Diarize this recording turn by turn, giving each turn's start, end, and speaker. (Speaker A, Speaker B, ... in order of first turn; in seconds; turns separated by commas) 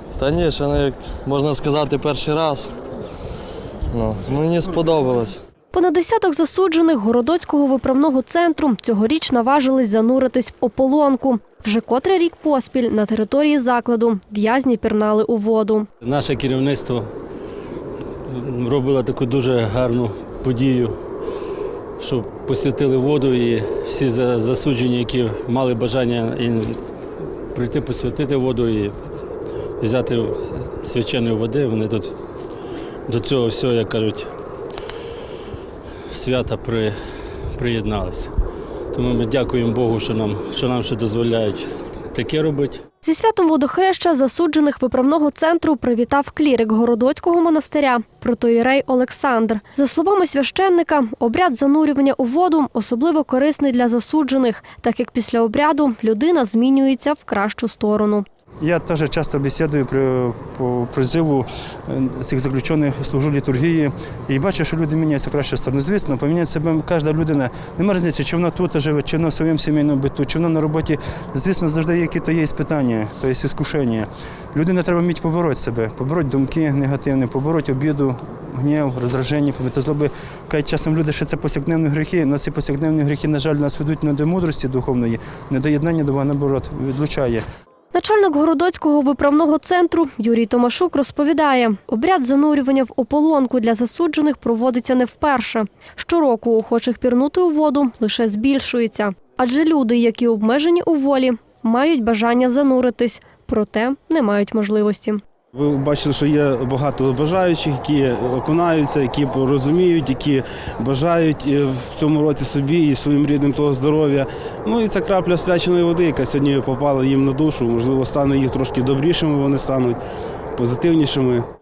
Speaker A: 0.2-2.7, Speaker A: 3.9-5.4, Speaker B: 5.7-15.9, Speaker C: 16.0-17.1, Speaker C: 18.2-20.9, Speaker C: 22.0-26.8, Speaker C: 27.5-29.0, Speaker C: 29.8-32.1, Speaker C: 33.1-34.3, Speaker C: 36.1-37.0, Speaker C: 37.5-38.3, Speaker C: 38.9-42.8, Speaker B: 43.0-58.2, Speaker D: 58.6-87.4, Speaker B: 87.9-105.2, Speaker E: 105.5-120.0, Speaker E: 120.6-121.4